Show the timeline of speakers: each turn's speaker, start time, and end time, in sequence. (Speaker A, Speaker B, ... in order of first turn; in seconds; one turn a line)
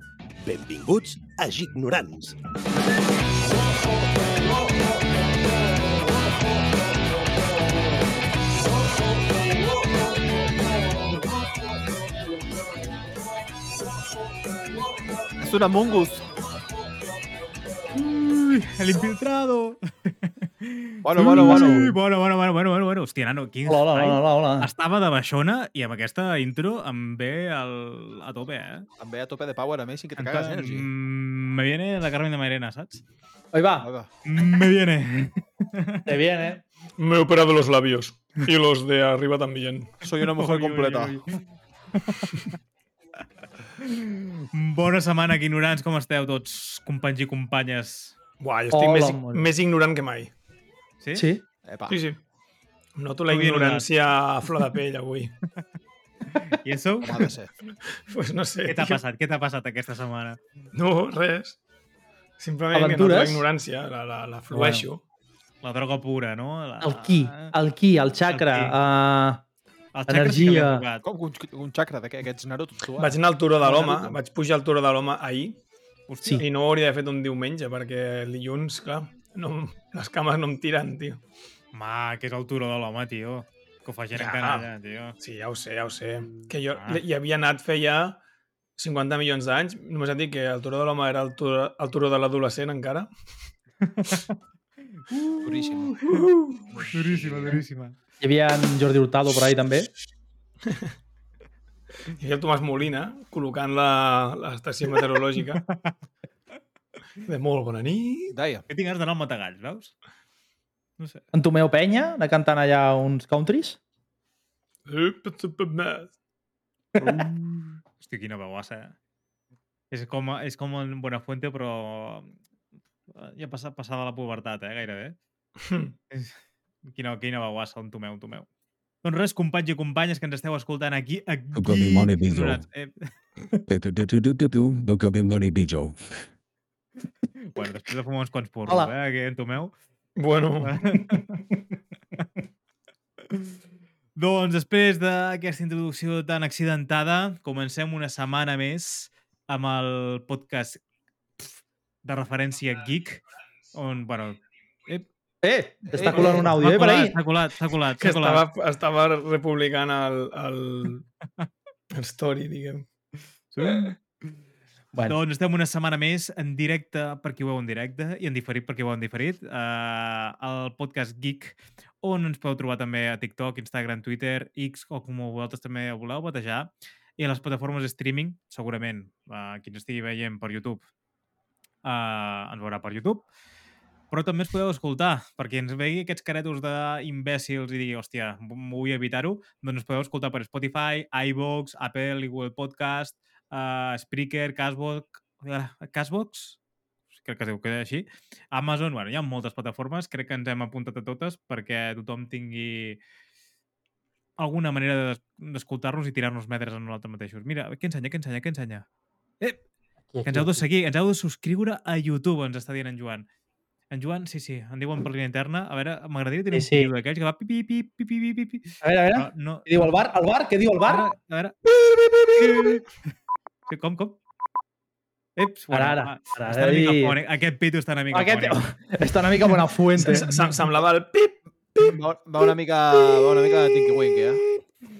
Speaker A: 0.4-2.4
Speaker B: 15.4-16.3
Speaker C: 17.9-28.9
Speaker B: 21.0-21.9
Speaker D: 21.4-21.9
Speaker D: 23.6-24.7
Speaker B: 29.0-30.9
Speaker C: 30.2-33.0
Speaker D: 33.5-33.9
Speaker B: 33.8-34.1
Speaker C: 34.2-36.0
Speaker D: 36.0-36.6
Speaker E: 37.0-39.9
Speaker B: 40.0-41.2
Speaker C: 40.4-41.4
Speaker C: 42.0-42.4
Speaker C: 43.8-48.1
Speaker E: 48.4-50.3
Speaker D: 48.7-49.5
Speaker C: 51.0-51.2
Speaker D: 51.1-51.4
Speaker B: 51.6-52.0
Speaker E: 51.9-52.2
Speaker E: 53.0-55.4
Speaker C: 53.3-53.9
Speaker C: 56.4-57.3
Speaker B: 57.0-57.5
Speaker E: 57.9-59.0
Speaker C: 58.7-60.4
Speaker E: 60.7-61.6
Speaker E: 62.4-65.0
Speaker D: 62.7-63.5
Speaker D: 64.5-64.9
Speaker C: 65.6-67.5
Speaker D: 66.8-69.4
Speaker C: 68.3-68.8
Speaker C: 69.9-71.0
Speaker D: 70.1-70.8
Speaker B: 71.0-74.2
Speaker E: 73.0-75.6
Speaker C: 76.1-76.4
Speaker E: 76.4-81.2
Speaker C: 81.7-85.1
Speaker E: 84.1-84.7
Speaker E: 85.2-88.2
Speaker C: 86.7-87.0
Speaker E: 88.8-93.1
Speaker C: 93.8-94.4
Speaker C: 95.0-96.2
Speaker B: 95.4-96.0
Speaker E: 96.1-96.6
Speaker B: 96.7-97.6
Speaker C: 96.9-98.0
Speaker D: 98.2-99.9
Speaker E: 102.2-105.6
Speaker C: 105.7-106.0
Speaker E: 107.2-108.3
Speaker B: 108.3-108.6
Speaker C: 108.7-109.9
Speaker D: 111.3-113.8
Speaker E: 114.8-116.1
Speaker D: 116.9-117.8
Speaker C: 118.0-118.9
Speaker C: 119.9-122.3
Speaker C: 123.1-125.2
Speaker E: 125.6-125.9
Speaker C: 126.1-126.4
Speaker C: 126.9-128.4
Speaker C: 129.0-133.0
Speaker F: 131.5-132.6
Speaker F: 133.7-136.2
Speaker C: 137.5-139.7
Speaker D: 138.7-138.9
Speaker E: 140.2-140.7
Speaker C: 140.6-141.4
Speaker C: 144.2-150.8
Speaker C: 152.0-153.2
Speaker C: 153.7-155.1
Speaker D: 155.4-157.2
Speaker B: 155.9-156.3
Speaker E: 156.1-156.4
Speaker C: 156.2-158.4
Speaker E: 158.0-161.1
Speaker E: 161.9-162.8
Speaker C: 163.5-164.3
Speaker C: 165.1-180.8
Speaker C: 181.8-183.2
Speaker C: 184.1-196.6
Speaker C: 197.2-203.0
Speaker C: 204.4-208.8
Speaker D: 210.1-210.6
Speaker C: 210.2-213.2
Speaker C: 213.9-220.0
Speaker D: 216.5-216.9
Speaker D: 218.8-221.1
Speaker C: 220.8-221.5
Speaker D: 221.8-222.8
Speaker C: 222.3-222.8
Speaker C: 223.7-224.2
Speaker C: 225.4-228.6
Speaker D: 225.7-227.2
Speaker D: 228.1-230.6
Speaker E: 230.0-231.4
Speaker B: 231.8-234.4